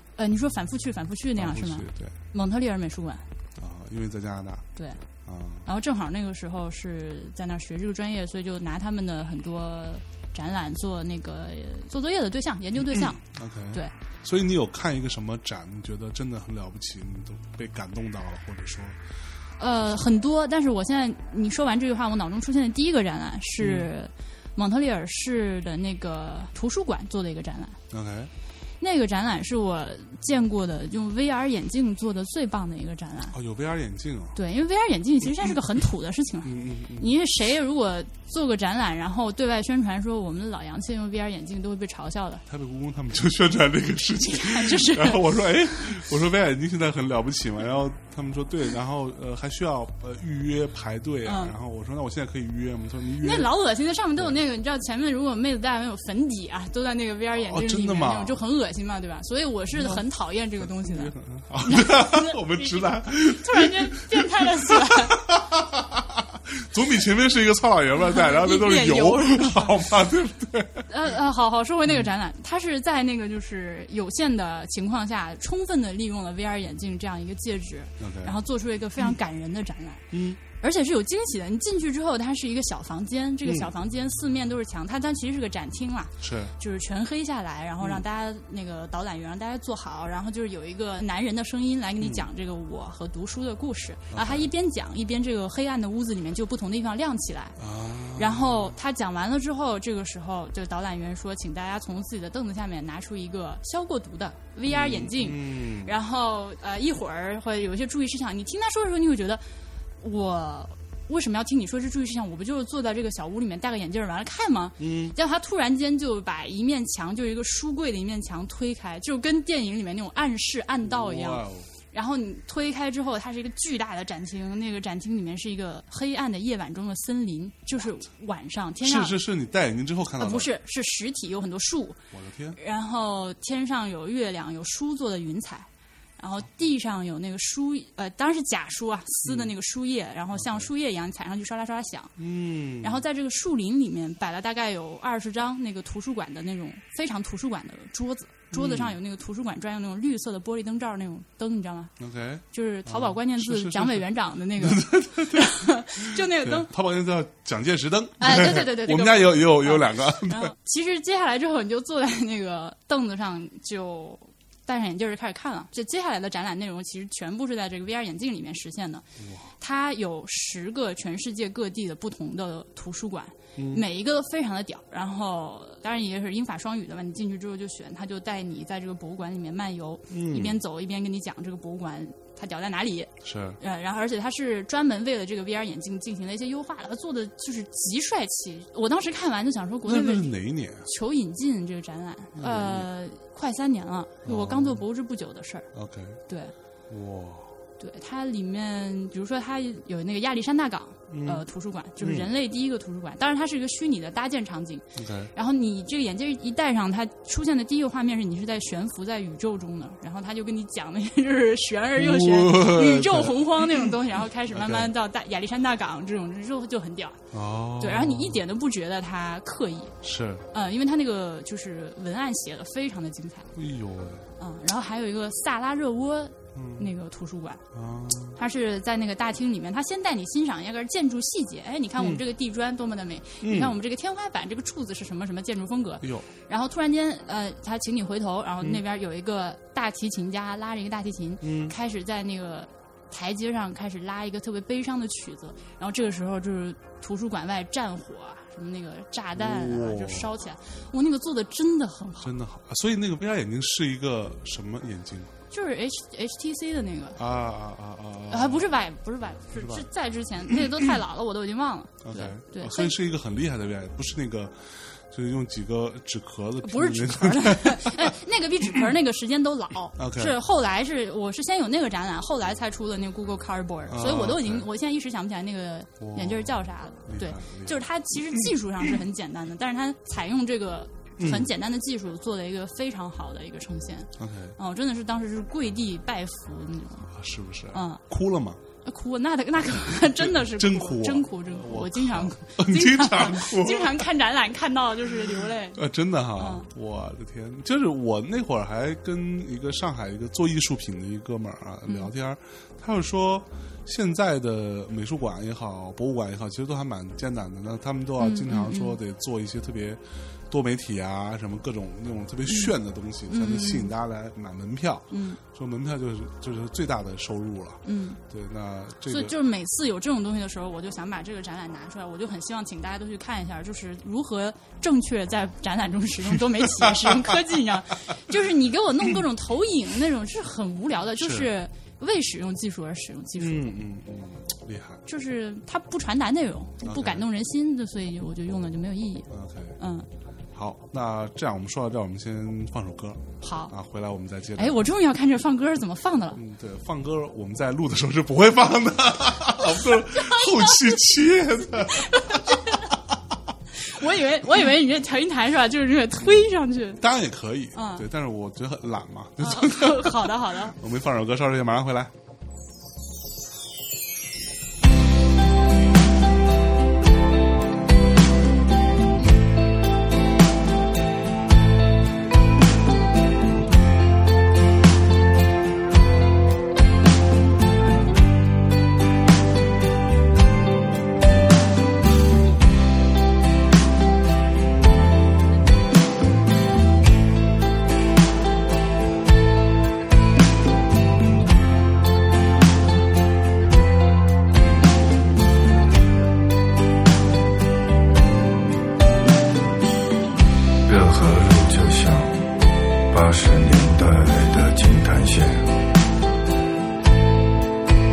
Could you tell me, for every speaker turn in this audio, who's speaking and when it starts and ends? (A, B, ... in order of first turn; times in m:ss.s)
0:00.2-0:03.2 A
0:01.4-0:02.1 B
0:03.6-0:04.7 B
0:04.8-0:05.0 A
0:05.2-0:05.6 B
0:05.6-0:13.2 A
0:12.8-0:19.0 B
0:19.6-0:27.8 A
0:23.6-0:23.9 B
0:27.9-0:28.3 B
0:28.8-0:33.3 A
0:33.3-0:34.4 B
0:34.3-0:42.4 A
0:36.4-0:37.1 B
0:42.5-0:53.5 B
0:44.2-0:45.4 A
0:51.2-0:51.5 A
0:53.2-1:05.2 A
0:57.4-0:58.4 B
0:59.7-1:00.0 B
1:00.6-1:10.9 B
1:08.0-1:09.8 A
1:10.9-1:37.6 A
1:18.0-1:18.4 B
1:20.1-1:20.4 B
1:23.4-1:23.7 B
1:26.2-1:26.5 B
1:32.0-1:32.2 B
1:34.1-1:34.5 B
1:37.6-1:38.8 B
1:38.2-1:49.4 A
1:44.7-1:46.0 B
1:50.0-2:09.2 A
1:54.8-1:55.2 B
2:00.8-2:01.7 B
2:08.8-2:10.5 B
2:10.2-2:12.0 A
2:12.1-2:12.6 B
2:12.5-2:22.1 A
2:19.2-2:19.5 B
2:20.4-2:20.7 B
2:22.2-2:23.0 B
2:22.8-2:31.9 A
2:28.5-2:29.0 B
2:32.0-2:40.5 B
2:32.5-2:36.7 A
2:38.2-2:49.0 A
2:49.2-2:49.5 B
2:49.6-3:10.3 A
2:53.6-2:53.8 B
3:00.1-3:00.6 B
3:03.2-3:03.6 B
3:09.8-3:10.9 B
3:10.8-3:15.7 A
3:12.3-3:12.9 B
3:14.2-3:14.8 B
3:15.7-3:16.2 B
3:16.3-3:16.5 A
3:16.9-3:17.6 B
3:17.8-3:37.2 A
3:21.1-3:21.4 B
3:22.0-3:22.3 B
3:24.9-3:25.3 B
3:32.0-3:33.9 B
3:34.5-3:34.9 B
3:37.3-3:38.4 B
3:37.8-3:39.9 A
3:40.0-3:40.4 B
3:40.5-3:43.5 A
3:43.5-3:44.3 B
3:44.4-3:47.6 A
3:46.5-3:46.9 B
3:47.7-3:48.4 B
3:48.3-4:12.3 A
3:52.0-3:52.2 B
3:53.4-3:53.8 B
3:56.0-3:56.3 B
4:01.4-4:01.7 B
4:09.3-4:10.3 B
4:12.2-4:15.3 B
4:15.5-4:17.2 A
4:17.2-4:18.7 B
4:18.3-4:22.9 A
4:19.5-4:19.9 B
4:22.0-4:28.2 B
4:26.6-4:47.1 A
4:30.0-4:30.4 B
4:33.9-4:34.7 B
4:36.0-4:38.5 B
4:41.2-4:41.5 B
4:44.2-4:44.6 B
4:47.1-4:48.6 B
4:47.7-4:48.0 A
4:48.8-4:55.8 A
4:50.2-4:54.1 B
4:55.7-5:19.4 B
4:56.4-4:56.7 A
5:08.2-5:09.0 A
5:12.5-5:12.8 A
5:13.3-5:13.9 A
5:15.1-5:15.4 A
5:17.8-5:18.2 A
5:19.1-5:33.7 A
5:26.6-5:27.5 B
5:31.2-5:31.5 B
5:33.4-5:35.0 B
5:35.0-5:40.1 A
5:36.8-5:37.2 B
5:39.3-5:39.8 B
5:40.5-5:44.8 B
5:43.4-5:43.7 A
5:44.6-5:46.4 A
5:46.4-5:52.8 B
5:49.8-5:51.0 A
5:51.7-5:52.9 A
5:53.7-5:57.0 A
5:57.0-6:02.1 B
5:57.7-5:58.0 A
5:59.4-6:00.8 A
6:40.8-6:42.4 C
6:43.1-6:45.7 C